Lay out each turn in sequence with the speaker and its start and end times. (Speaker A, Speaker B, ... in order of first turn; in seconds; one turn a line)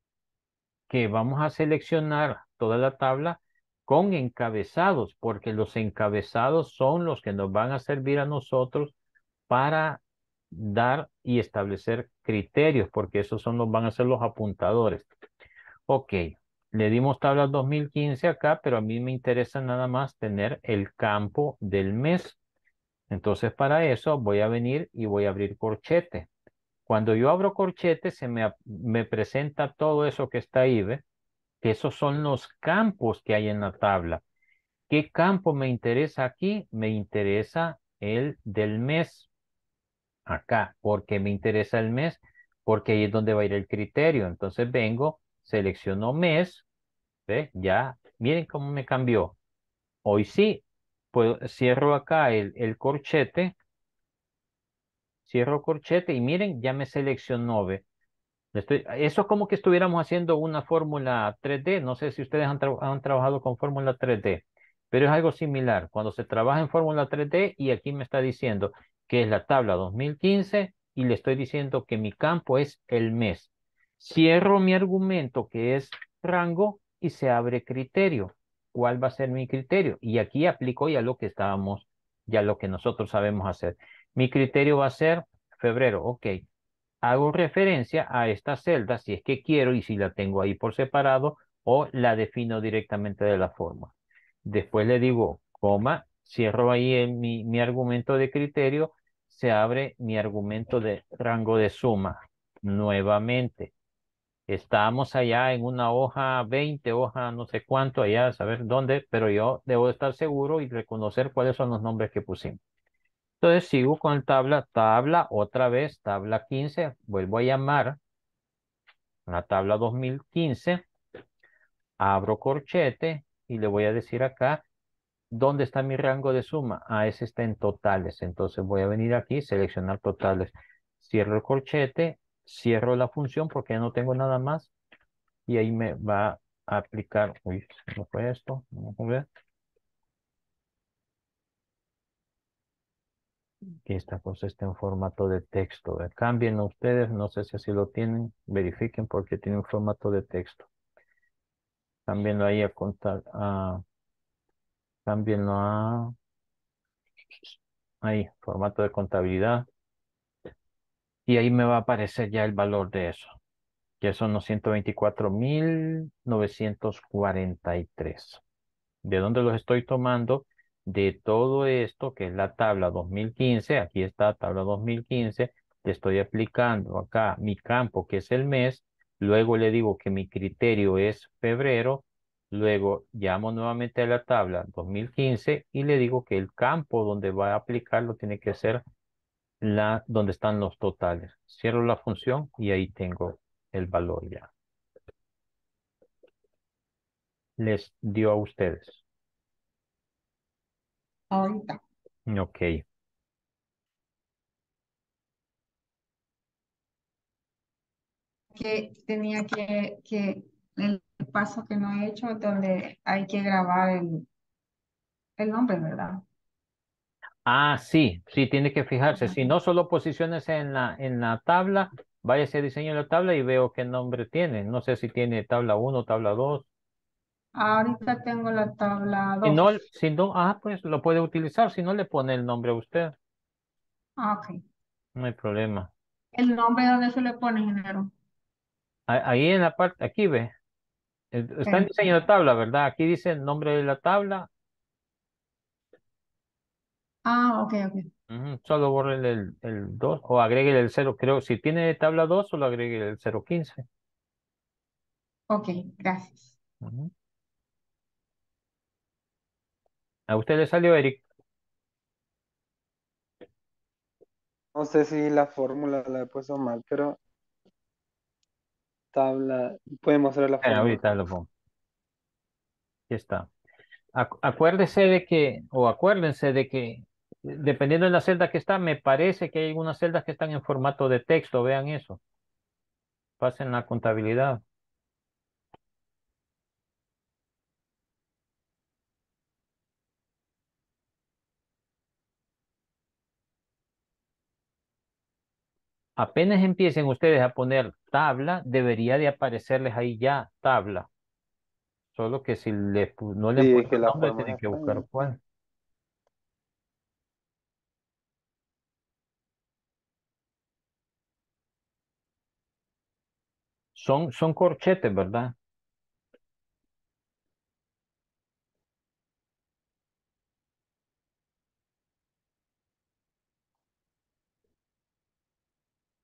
Speaker A: 0.9-8.9
Speaker A: 9.5-10.0
Speaker A: 10.5-15.1
Speaker A: 15.9-22.4
Speaker A: 23.1-26.3
Speaker A: 26.9-31.0
Speaker A: 31.6-34.2
Speaker A: 34.9-39.3
Speaker A: 40.3-46.6
Speaker A: 47.3-49.4
Speaker A: 50.0-53.5
Speaker A: 55.3-57.8
Speaker A: 58.5-86.4
Speaker A: 87.0-93.9
Speaker A: 94.4-103.7
Speaker A: 104.5-112.6
Speaker A: 113.4-118.0
Speaker A: 119.3-120.8
Speaker A: 122.0-124.6
Speaker A: 125.3-134.7
Speaker A: 135.5-139.2
Speaker A: 143.8-150.7
Speaker A: 152.1-153.8
Speaker A: 155.1-156.1
Speaker A: 157.4-159.7
Speaker A: 161.3-163.4
Speaker A: 164.0-168.4
Speaker A: 169.0-188.8
Speaker A: 189.6-194.5
Speaker A: 197.6-199.0
Speaker B: 201.3-201.8
Speaker A: 202.3-202.8
Speaker B: 208.5-214.2
Speaker B: 215.4-216.2
Speaker A: 217.4-226.7
Speaker B: 219.1-219.4
Speaker B: 227.6-229.8
Speaker A: 229.4-233.1
Speaker B: 234.2-234.6
Speaker A: 235.2-235.9
Speaker B: 236.3-238.1
Speaker A: 239.1-240.5
Speaker A: 241.3-244.5
Speaker B: 241.6-242.1
Speaker B: 247.2-248.1
Speaker A: 248.3-253.8
Speaker B: 255.5-256.5
Speaker A: 256.8-257.1
Speaker A: 260.3-261.2
Speaker C: 264.7-267.2
Speaker C: 269.1-271.0
Speaker A: 270.6-271.5
Speaker A: 273.1-273.5
Speaker A: 274.1-282.2
Speaker A: 283.4-284.6
Speaker A: 296.2-301.1
Speaker A: 302.1-305.4
Speaker C: 303.6-305.0
Speaker A: 313.9-315.5